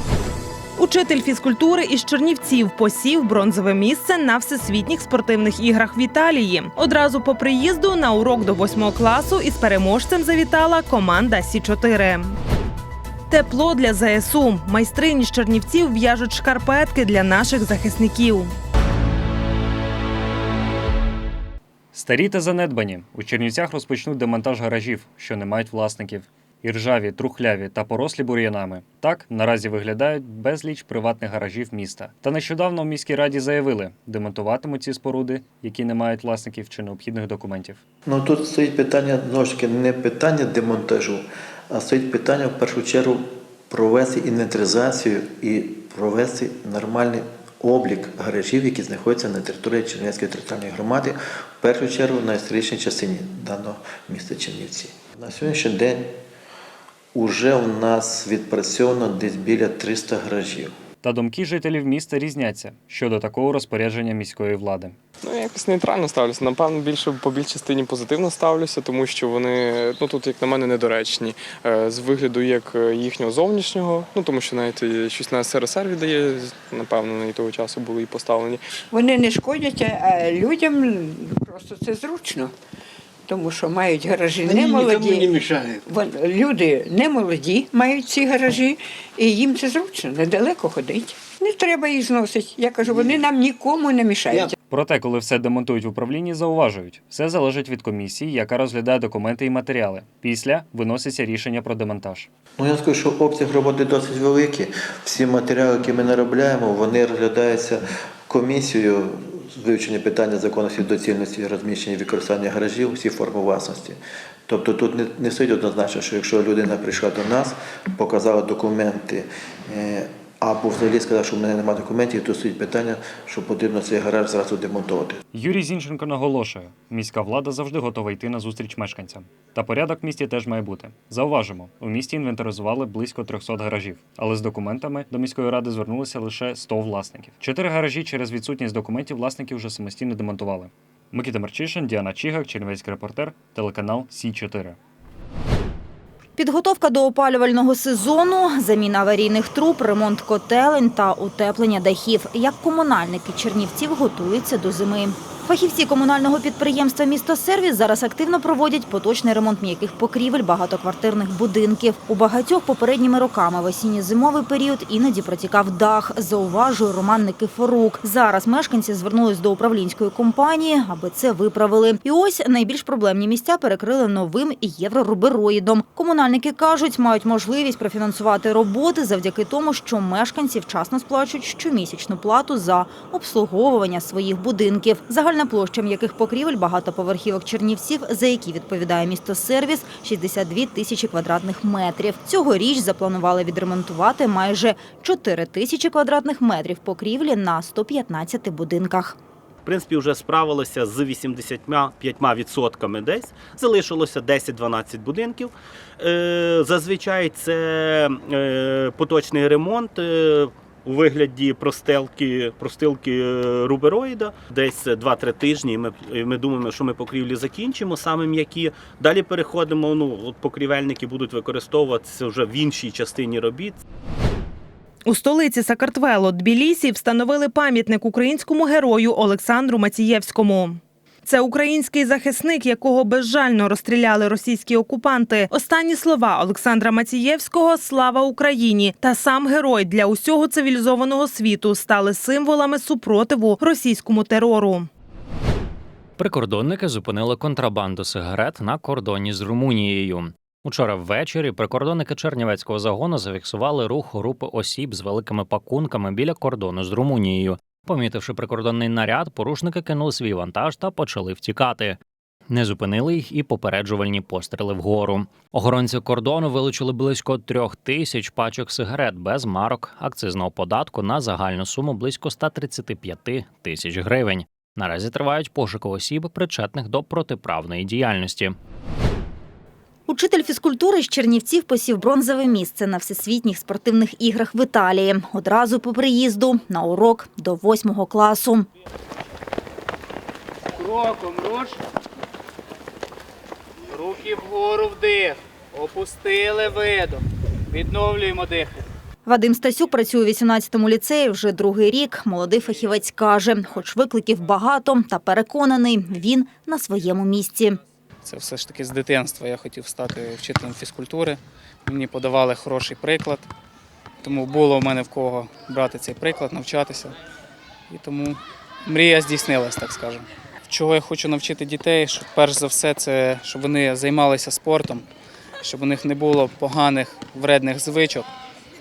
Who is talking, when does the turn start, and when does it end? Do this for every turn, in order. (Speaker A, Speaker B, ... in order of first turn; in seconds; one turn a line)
Speaker A: 0.8-12.3
Speaker A: 13.3-18.5
Speaker B: 21.9-37.8
Speaker C: 38.1-56.1
Speaker C: 57.1-60.7
Speaker B: 61.0-65.0
Speaker D: 65.3-78.6
Speaker E: 73.7-74.2
Speaker F: 78.9-82.5
Speaker F: 83.3-94.5
Speaker B: 94.7-102.3
Speaker C: 102.6-114.0
Speaker C: 114.5-125.2
Speaker B: 125.3-144.8
Speaker G: 146.4-199.2
Speaker E: 199.7-223.8
Speaker A: 225.1-244.9
Speaker H: 246.2-278.6
Speaker G: 280.1-288.7
Speaker G: 299.3-307.8
Speaker I: 308.2-313.5
Speaker I: 314.2-317.1
Speaker I: 317.9-325.1
Speaker I: 325.6-328.3